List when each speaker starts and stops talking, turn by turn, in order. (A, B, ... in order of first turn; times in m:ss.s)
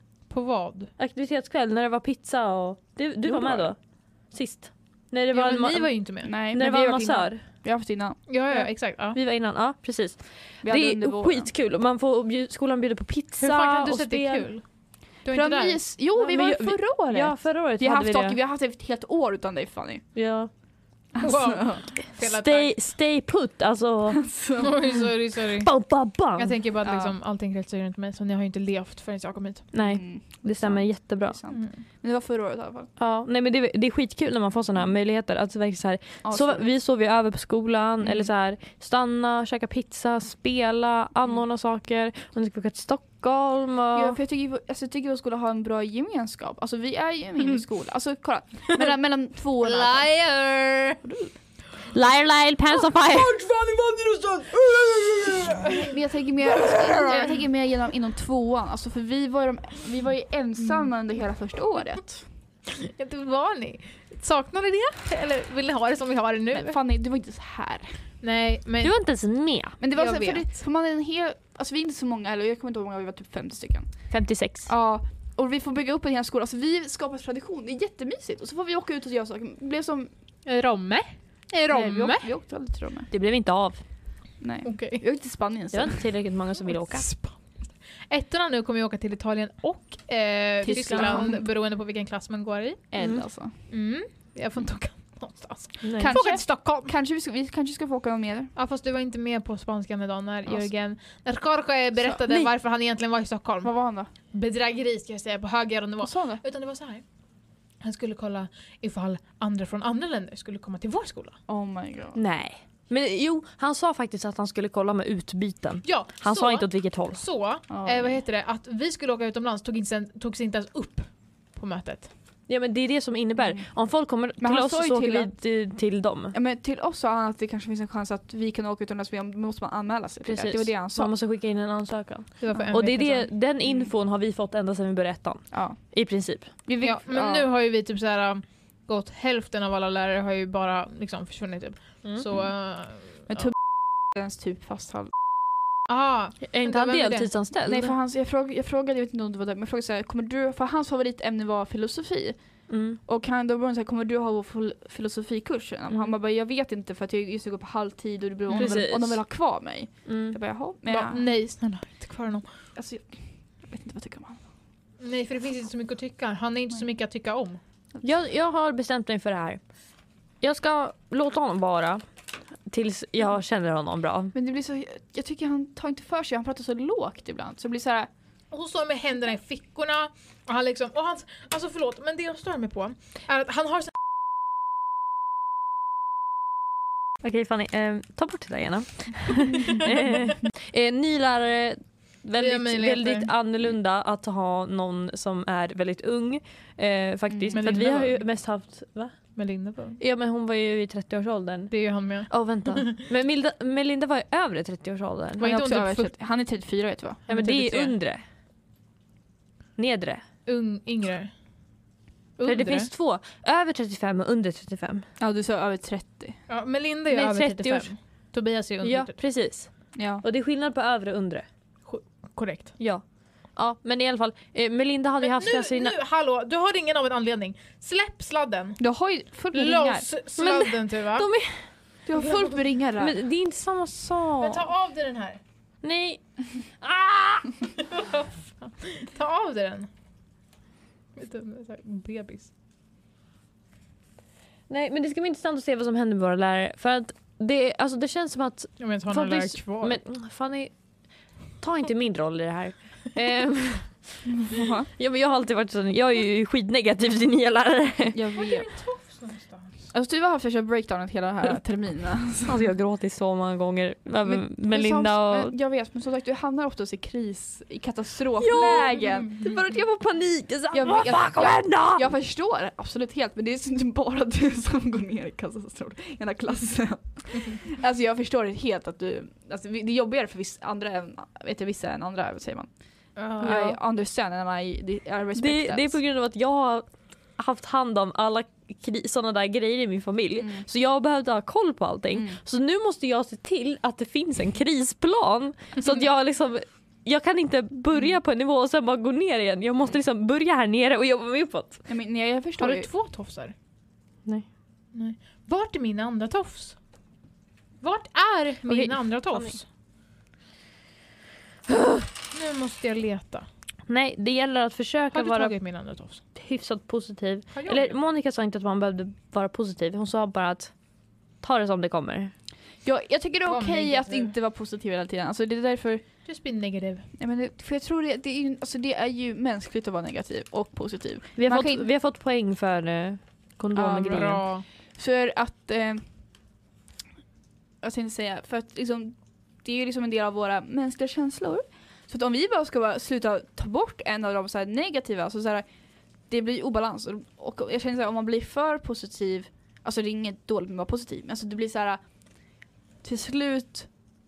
0:00.3-0:00.9 A
0:01.0-0:03.8 B
0:03.2-0:03.7 C
0:04.3-0:05.9 B
0:05.3-0:07.3 A
0:06.2-0:07.0 C
0:06.5-0:07.4 B
0:07.6-0:08.3 C
0:08.3-0:09.2 A
0:09.1-0:14.5 B
0:10.6-0:11.5 C
0:13.4-0:14.6 A
0:15.2-0:15.8 A
0:15.3-0:20.0 C
0:16.1-0:18.4 B
0:20.1-0:20.5 B
0:21.1-0:21.8 C
0:21.2-0:22.8 A
0:22.1-0:24.2 B
0:24.1-0:25.0 C
0:24.6-0:25.8 A
0:25.6-0:26.6 B
0:26.3-0:29.7 A
0:26.8-0:27.1 C
0:29.7-0:31.4 B
0:29.8-0:32.9 C
0:31.5-0:31.8 A
0:33.0-0:44.2 B
0:36.2-0:36.6 C
0:38.0-0:38.3 C
0:43.9-0:50.1 C
0:49.7-0:51.0 A
0:51.0-0:51.3 C
0:51.9-0:53.3 B
0:53.1-0:54.0 C
0:55.3-0:55.9 A
0:55.8-1:02.2 C
0:56.6-0:57.3 A
1:02.7-1:06.8 A
1:06.5-1:08.0 C
1:08.2-1:08.9 A
1:08.8-1:09.8 B
1:09.8-1:14.1 C
1:09.9-1:10.5 A
1:14.1-1:14.7 B
1:14.7-1:20.1 C
1:20.4-1:22.3 A
1:21.7-1:23.1 C
1:23.1-1:23.8 B
1:24.4-1:26.0 C
1:24.6-1:25.0 A
1:25.7-1:27.1 B
1:26.7-1:27.4 A
1:28.1-1:32.9 A
1:30.6-1:31.4 C
1:30.6-1:31.3 B
1:32.9-1:33.5 C
1:33.0-1:33.2 B
1:33.7-1:36.9 A
1:35.8-1:36.2 B
1:36.0-1:38.5 C
1:38.6-1:43.7 A
1:42.0-1:42.2 C
1:43.6-1:44.1 C
1:44.3-1:47.0 A
1:46.0-1:46.4 C
1:47.8-1:51.4 A
1:51.5-1:52.2 C
1:52.1-1:57.2 B
1:55.8-2:02.1 A
1:57.7-1:58.2 C
2:02.5-2:06.3 B
2:03.4-2:03.7 C
2:04.4-2:05.3 C
2:06.3-2:11.1 C
2:10.2-2:16.5 B
2:12.4-2:13.3 A
2:13.6-2:13.9 C
2:15.5-2:15.8 C
2:16.6-2:17.5 C
2:16.8-2:23.4 A
2:23.3-2:25.1 C
2:25.9-2:27.3 A
2:26.5-2:27.9 B
2:27.6-2:41.2 C
2:32.7-2:33.0 B
2:38.5-2:39.3 B
2:40.0-2:40.4 B
2:40.8-2:42.5 A
2:42.8-2:44.4 C
2:45.0-2:47.6 A
2:48.0-2:49.6 B
2:50.4-2:52.0 B
2:52.7-2:54.3 B
2:54.3-2:58.1 C
2:58.5-3:03.9 A
3:07.2-3:19.2 B
3:12.4-3:13.3 A
3:17.3-3:17.6 C
3:17.5-3:18.2 A
3:19.3-3:20.0 A
3:20.0-3:21.7 B
3:21.7-3:23.0 A
3:22.3-3:25.5 B
3:25.4-3:26.1 A
3:25.4-3:27.2 C
3:27.3-3:27.9 A
3:27.3-3:28.2 B
3:29.8-3:30.2 B
3:30.4-3:31.3 A
3:32.4-3:32.9 A
3:32.4-3:35.0 B
3:35.2-3:36.4 C
3:36.5-3:39.1 A
3:37.1-3:37.9 B
3:38.8-3:41.4 B
3:39.9-3:40.2 C
3:41.8-3:42.8 A
3:42.8-3:46.0 B
3:45.2-3:48.8 A
3:48.8-3:50.1 C
3:49.5-3:51.3 A
3:50.4-3:51.7 B
3:52.0-3:53.2 C
3:53.0-3:54.7 B
3:54.4-3:55.4 A
3:55.8-3:56.2 B
3:56.8-3:57.5 B
3:57.9-3:59.9 A
4:01.2-4:02.5 A
4:04.7-4:14.2 B
4:08.8-4:10.0 A
4:14.3-4:14.9 C
4:15.0-4:18.2 B
4:18.1-4:18.7 C
4:18.4-4:19.8 A
4:19.9-4:22.7 C
4:22.5-4:25.5 B
4:24.2-4:29.4 C
4:28.4-4:32.1 B
4:30.7-4:46.0 C
4:43.2-4:43.6 A
4:43.4-4:43.8 B
4:45.4-5:01.8 B
4:52.1-4:52.4 C
5:01.9-5:02.9 C
5:02.6-5:03.5 A
5:04.9-5:06.8 A
5:07.8-5:09.6 A
5:08.7-5:09.5 B
5:11.7-5:12.0 B
5:12.3-5:13.5 A
5:13.9-5:15.5 B
5:15.1-5:16.2 A
5:16.3-5:20.7 B
5:17.5-5:17.9 A
5:21.4-5:22.3 B
5:22.8-5:26.0 C
5:23.4-5:24.3 A
5:26.2-5:27.1 A
5:27.2-5:31.9 C
5:31.4-5:34.4 B
5:33.7-5:36.0 C
5:34.1-5:34.6 A
5:37.8-5:45.6 C
5:46.3-5:52.0 C
5:53.0-5:53.9 C